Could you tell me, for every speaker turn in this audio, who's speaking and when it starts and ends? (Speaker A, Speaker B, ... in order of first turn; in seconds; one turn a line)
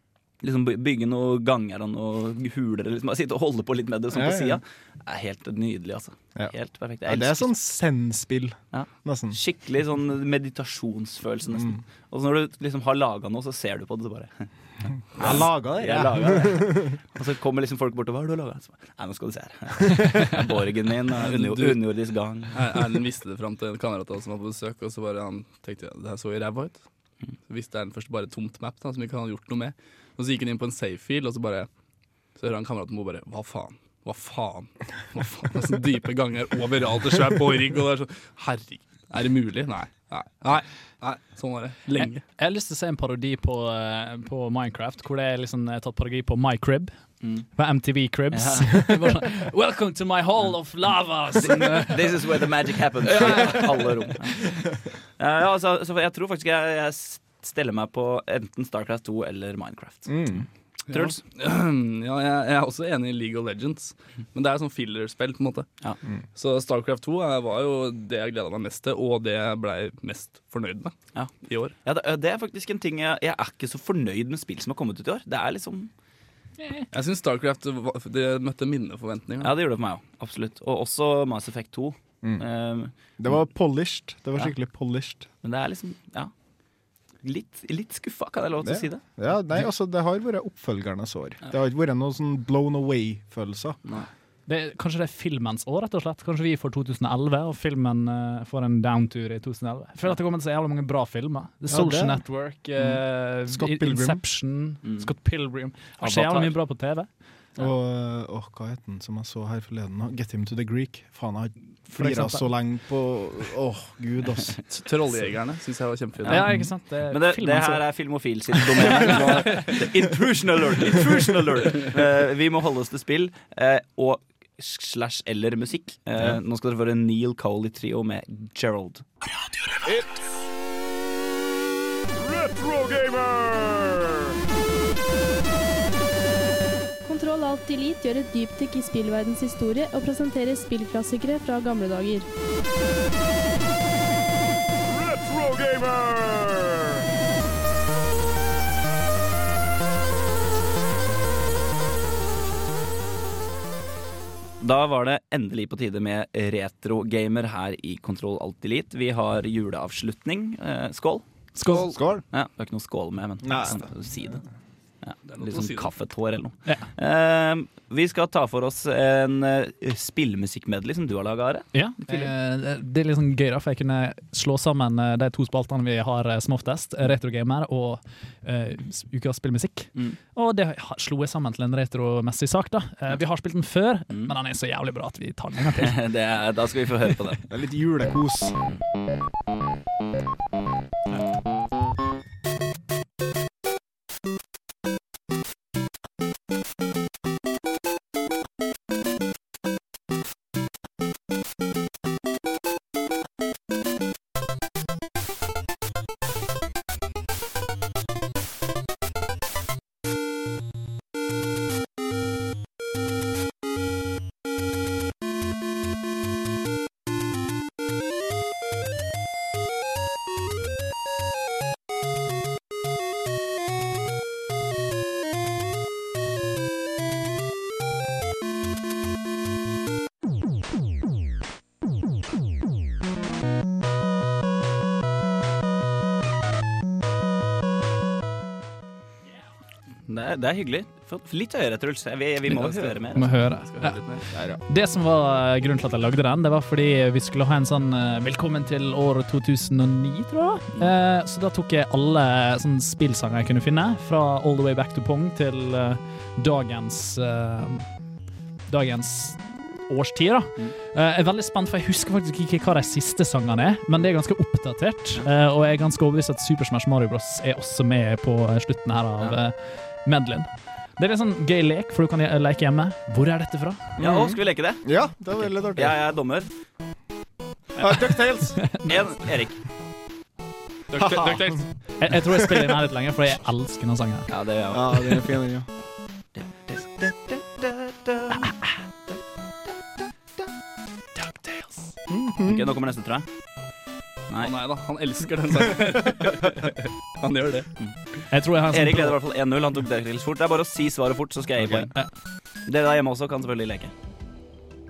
Speaker A: 0.4-7.5
Speaker B: 4.1-4.6
Speaker B: 7.0-9.4
Speaker A: 8.7-14.5
Speaker B: 11.5-11.8
Speaker B: 15.1-16.9
Speaker A: 15.1-22.9
Speaker C: 21.1-31.7
Speaker C: 32.3-42.2
Speaker D: 42.0-52.5
Speaker A: 47.2-47.5
Speaker A: 48.3-49.0
Speaker A: 51.4-54.5
Speaker D: 53.0-54.1
Speaker A: 55.2-60.2
Speaker B: 60.0-60.5
Speaker A: 60.9-61.2
Speaker C: 60.9-65.7
Speaker C: 66.3-71.7
Speaker A: 71.1-75.9
Speaker D: 76.6-76.9
Speaker C: 76.9-79.5
Speaker A: 79.4-83.3
Speaker B: 83.2-85.3
Speaker A: 85.4-86.3
Speaker A: 87.2-89.3
Speaker B: 88.6-93.8
Speaker D: 94.5-107.1
Speaker B: 101.7-104.2
Speaker A: 104.8-105.1
Speaker A: 106.0-106.6
Speaker B: 107.5-114.6
Speaker D: 111.9-112.5
Speaker C: 114.7-116.7
Speaker D: 116.2-118.1
Speaker A: 116.4-129.0
Speaker C: 119.0-119.7
Speaker D: 119.1-119.6
Speaker E: 137.1-142.2
Speaker A: 154.6-161.2
Speaker D: 161.6-161.9
Speaker C: 161.6-161.9
Speaker B: 161.7-162.2
Speaker A: 162.3-164.4
Speaker B: 163.4-164.4
Speaker A: 165.0-172.3
Speaker C: 165.3-165.9
Speaker D: 171.7-186.0
Speaker A: 185.8-187.4
Speaker B: 187.5-188.6
Speaker A: 240.1-243.3
Speaker C: 242.5-244.2
Speaker D: 243.1-258.1
Speaker B: 244.3-244.6
Speaker D: 258.6-273.9
Speaker B: 274.0-276.1
Speaker A: 274.0-276.5
Speaker B: 277.7-278.8
Speaker D: 277.8-278.9
Speaker A: 278.8-279.6
Speaker C: 280.9-281.6
Speaker B: 281.0-281.6
Speaker D: 281.0-284.3
Speaker A: 284.3-285.4
Speaker B: 284.7-285.7
Speaker A: 286.4-288.5
Speaker B: 292.1-292.7
Speaker A: 292.4-293.2
Speaker C: 294.4-297.8
Speaker A: 297.8-298.1
Speaker D: 298.3-299.2
Speaker A: 298.7-303.9